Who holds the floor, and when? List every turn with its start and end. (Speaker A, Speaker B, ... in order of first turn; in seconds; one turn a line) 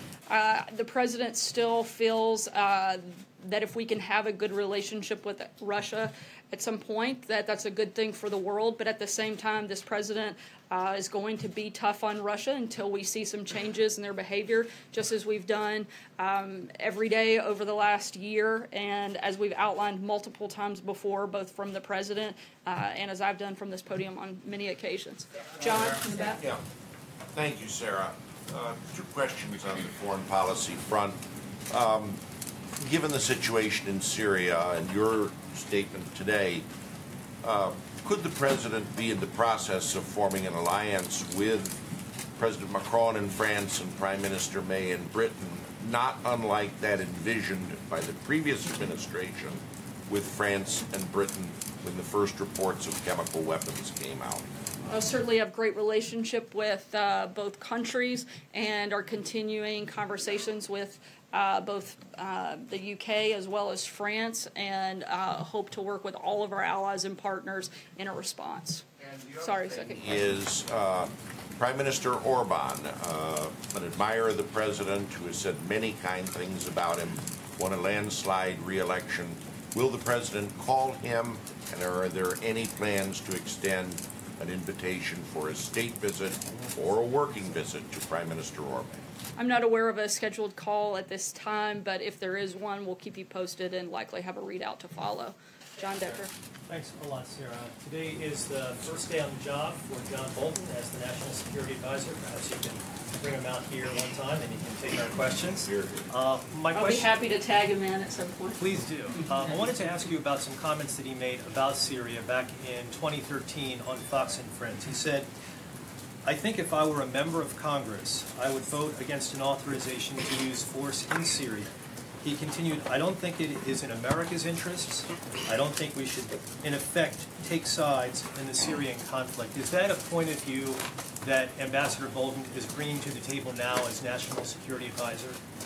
Speaker A: 0.3-26.4
Speaker B: 27.3-31.2
Speaker B: 31.7-32.2
Speaker B: 32.8-36.6
Speaker B: 37.4-41.8
Speaker B: 42.4-54.5
Speaker A: 54.9-70.2
Speaker B: 69.9-89.0
Speaker A: 89.4-96.3
Speaker C: 96.7-107.2
Speaker A: 106.7-108.7
Speaker C: 108.6-115.3
Speaker C: 116.2-121.7
Speaker C: 122.2-135.4